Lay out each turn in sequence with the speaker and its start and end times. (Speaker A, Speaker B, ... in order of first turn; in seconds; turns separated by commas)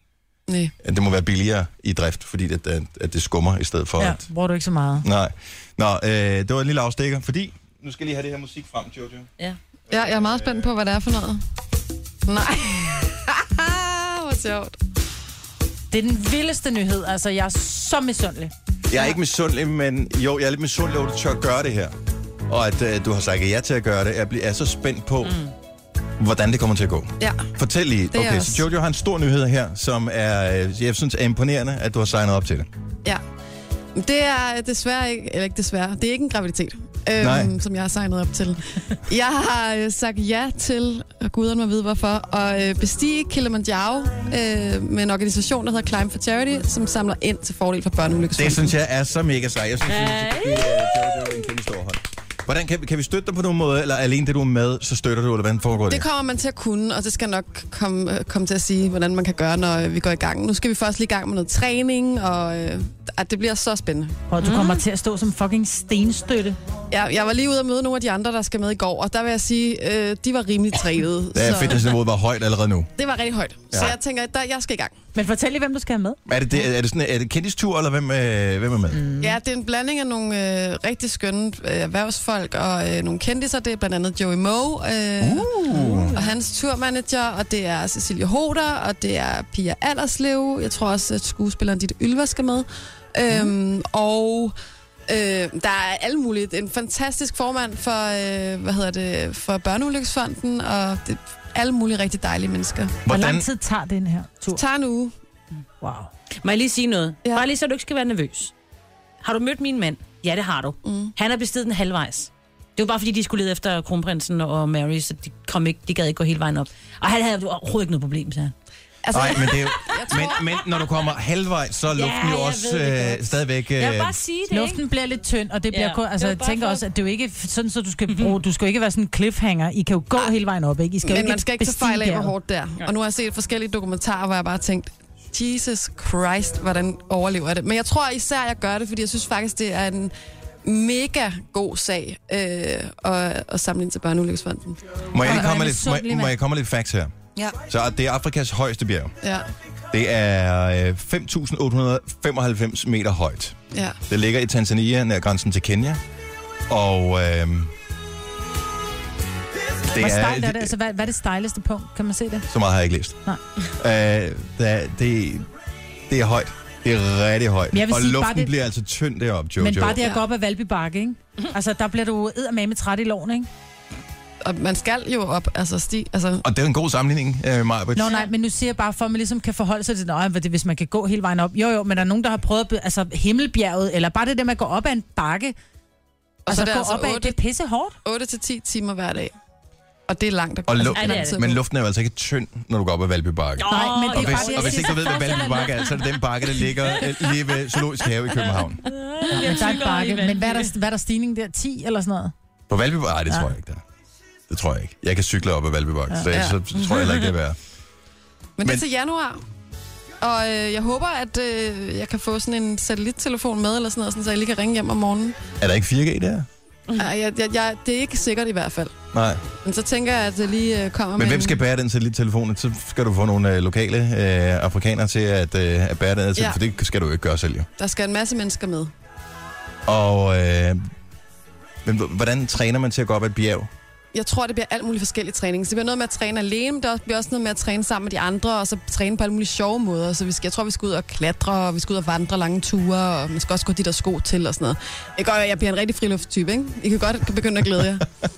Speaker A: 0.5-0.7, Speaker B: 0.8-4.2, Speaker C: 4.0-5.0, Speaker B: 5.0-9.3, Speaker B: 9.9-10.7, Speaker A: 9.9-11.4, Speaker A: 12.2-14.8, Speaker C: 15.9-18.5, Speaker B: 18.9-21.9, Speaker B: 22.5-25.4, Speaker D: 25.2-25.5, Speaker B: 26.2-32.7, Speaker A: 27.2-27.5, Speaker A: 28.1-28.6, Speaker A: 34.0-48.7, Speaker B: 37.2-37.5, Speaker B: 48.3-56.0, Speaker D: 49.9-51.4, Speaker A: 55.9-64.2, Speaker C: 64.3-66.6, Speaker D: 64.4-64.8, Speaker A: 66.9-71.9, Speaker B: 71.3-72.9, Speaker A: 73.0-74.9, Speaker C: 75.1-76.2, Speaker B: 76.3-79.0, Speaker C: 78.9-79.4, Speaker A: 79.2-94.5, Speaker B: 85.2-86.1, Speaker A: 95.1-103.0, Speaker B: 103.0-103.5, Speaker C: 103.1-104.6, Speaker A: 104.5-105.1, Speaker C: 105.8-106.1, Speaker D: 106.4-108.5, Speaker D: 109.2-118.5, Speaker A: 110.8-111.1, Speaker A: 119.0-120.5, Speaker B: 119.1-124.2, Speaker D: 121.9-124.8, Speaker C: 124.5-132.3, Speaker D: 125.7-126.8, Speaker D: 128.1-128.3, Speaker A: 131.0-140.1, Speaker A: 140.6-145.5, Speaker B: 145.1-147.1, Speaker C: 145.2-146.3, Speaker B: 147.7-149.2, Speaker A: 149.2-149.5, Speaker B: 149.9-156.0, Speaker A: 153.7-154.0, Speaker B: 156.7-157.7, Speaker B: 159.9-160.7, Speaker C: 159.9-162.5, Speaker B: 162.5-163.2, Speaker B: 163.8-165.5, Speaker B: 166.1-170.0, Speaker C: 167.7-168.5, Speaker C: 169.6-173.5, Speaker A: 174.4-176.4, Speaker B: 176.4-178.2, Speaker C: 177.9-185.5, Speaker A: 186.4-187.4, Speaker C: 186.5-187.9, Speaker A: 188.0-189.3, Speaker A: 190.1-191.6, Speaker B: 190.7-198.9, Speaker D: 190.9-191.4, Speaker D: 193.6-196.1, Speaker C: 193.7-195.8, Speaker D: 196.9-197.7, Speaker D: 198.4-200.7, Speaker C: 199.3-202.3, Speaker B: 202.7-203.8, Speaker B: 204.5-207.6, Speaker D: 206.3-207.3, Speaker A: 208.6-209.4, Speaker A: 210.2-215.4, Speaker B: 215.6-216.5, Speaker A: 216.9-218.9, Speaker B: 219.1-219.4, Speaker A: 219.5-221.6, Speaker B: 221.1-227.7, Speaker A: 227.8-228.9, Speaker B: 229.9-230.8, Speaker B: 231.8-233.7, Speaker A: 234.1-248.1